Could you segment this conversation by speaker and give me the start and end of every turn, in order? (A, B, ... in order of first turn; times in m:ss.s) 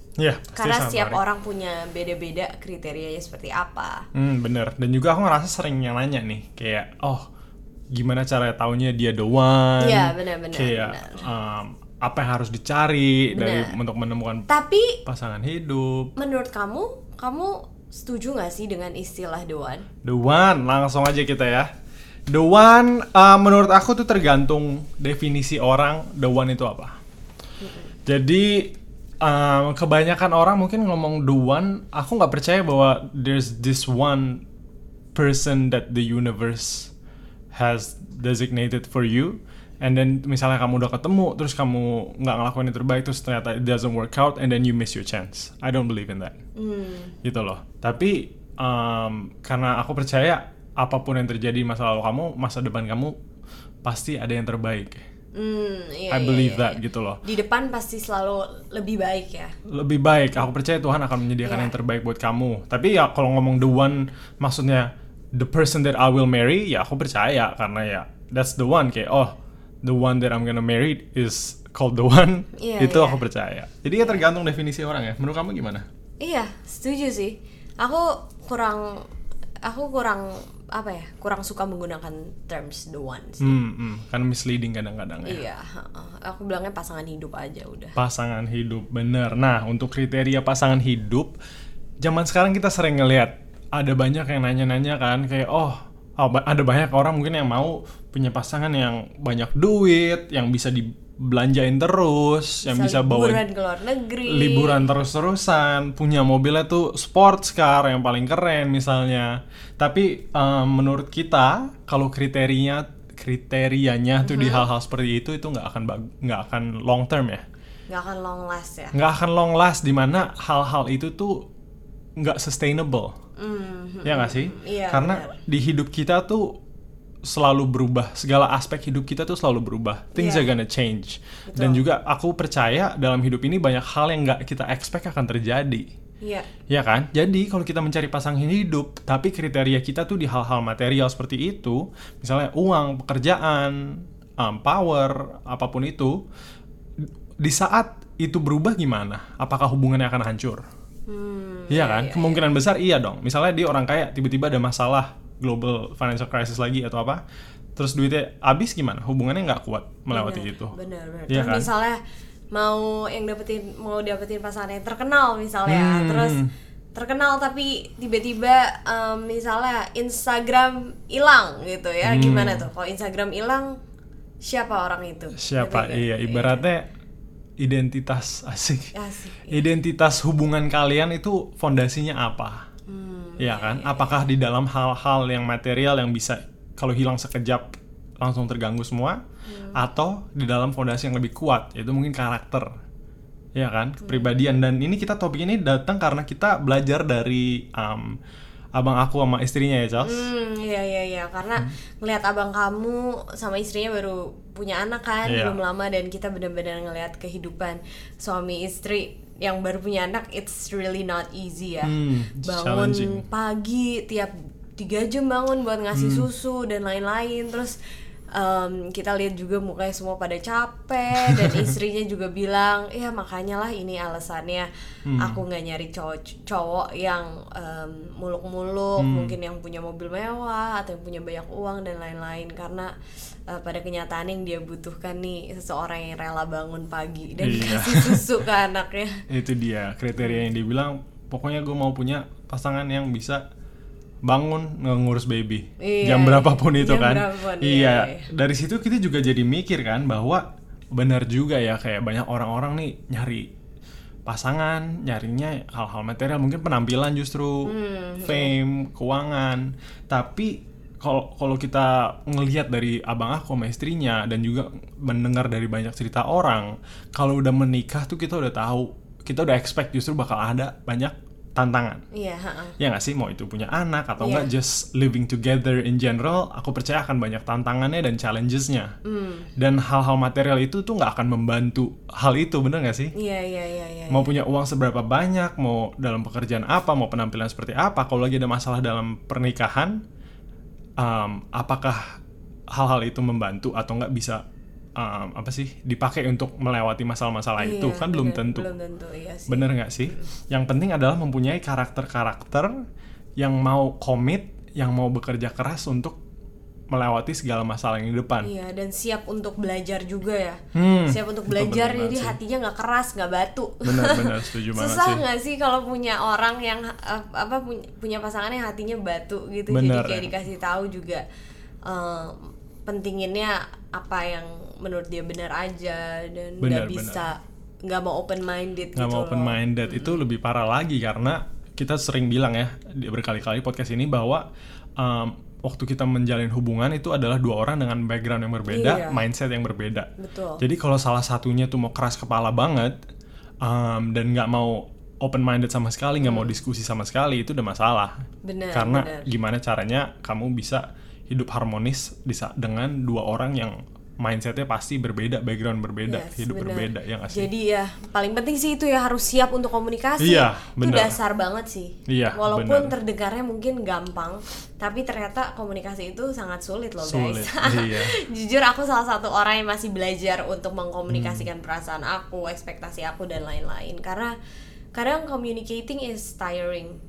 0:00.2-0:01.2 A
0:00.5-0:04.0 B
0:04.1-0:07.3 A
0:07.9-0:14.5 A
0:09.8-0:11.3 B
0:13.3-0:13.8 B
0:14.5-0:15.0 B
0:15.0-0:16.1 A
0:16.2-0:19.9 B
0:20.0-0:21.7 A
0:22.3-0:27.0 A
0:27.6-0:27.9 B
0:28.1-0:34.4 A
0:35.2-0:36.9 A
0:37.5-0:46.4 A
0:46.6-0:47.2 B
0:47.2-0:53.2 A
0:53.8-0:55.0 A
0:55.4-0:59.6 B
0:56.1-0:57.2 A
0:59.7-1:15.9 A
1:01.4-1:01.8 B
1:12.6-1:13.2 B
1:14.0-1:14.2 B
1:16.2-1:19.0 B
1:19.6-1:23.6 B
1:23.4-1:25.4 A
1:25.2-1:28.0 B
1:28.0-1:31.3 A
1:32.0-1:43.4 A
1:42.6-1:44.9 B
1:44.3-1:57.4 A
1:54.2-1:54.7 B
1:57.9-1:59.0 B
1:58.9-2:01.4 A
2:02.2-2:03.1 A
2:03.4-2:05.4 B
2:04.0-2:06.6 A
2:07.2-2:15.9 A
2:10.2-2:10.5 B
2:11.5-2:11.8 B
2:16.2-2:16.5 B
2:16.7-2:26.2 A
2:27.4-2:30.6 A
2:31.1-2:32.4 B
2:31.7-2:37.2 A
2:37.8-2:40.7 A
2:40.1-2:42.0 B
2:41.3-2:41.7 A
2:42.5-2:46.4 B
2:45.7-2:46.5 A
2:46.9-2:53.8 B
2:52.0-2:52.7 A
2:54.4-2:56.6 B
2:55.4-2:56.9 A
2:57.6-2:58.9 A
2:58.9-2:59.6 B
2:59.5-3:02.7 A
3:02.9-3:04.3 B
3:03.4-3:09.2 A
3:09.5-3:09.8 B
3:09.7-3:12.7 A
3:13.6-3:18.2 A
3:14.0-3:14.4 B
3:18.8-3:20.3 A
3:20.0-3:37.8 B
3:25.3-3:25.6 A
3:31.8-3:33.2 A
3:35.9-3:36.3 A
3:38.3-3:44.7 B
3:41.2-3:41.6 A
3:45.1-3:45.4 A
3:45.2-3:52.9 B
3:49.0-3:49.4 A
3:53.5-3:59.2 B
3:57.4-3:58.3 A
3:59.3-4:03.4 A
4:00.2-4:00.5 B
4:04.2-4:13.5 A
4:05.8-4:08.3 B
4:14.3-4:32.0 A
4:17.6-4:18.6 B
4:32.1-4:32.8 B
4:32.8-4:38.9 A
4:34.2-4:34.5 B
4:39.0-4:39.5 B
4:39.6-4:43.1 A
4:43.2-4:44.3 B
4:44.1-4:50.0 A
4:51.0-4:52.0 A
4:52.7-4:54.4 A
4:55.0-4:58.7 A
4:57.6-5:00.3 B
4:59.5-5:02.8 A
5:03.4-5:06.2 A
5:06.9-5:08.5 A
5:08.4-5:21.2 B
5:10.7-5:12.4 A
5:13.8-5:15.2 A
5:19.7-5:20.3 A
5:21.9-5:30.2 B
5:26.6-5:27.2 A
5:29.0-5:34.4 A
5:35.0-5:40.1 A
5:38.7-5:39.2 B
5:40.2-5:40.6 B
5:40.6-5:43.0 A
5:43.6-5:48.2 A
5:46.2-5:46.6 B
5:48.4-5:49.3 B
5:48.7-5:57.5 A
5:56.1-6:14.3 B
6:00.2-6:01.2 A
6:02.1-6:02.9 A
6:07.0-6:08.2 A
6:11.1-6:11.5 A
6:14.9-6:17.0 B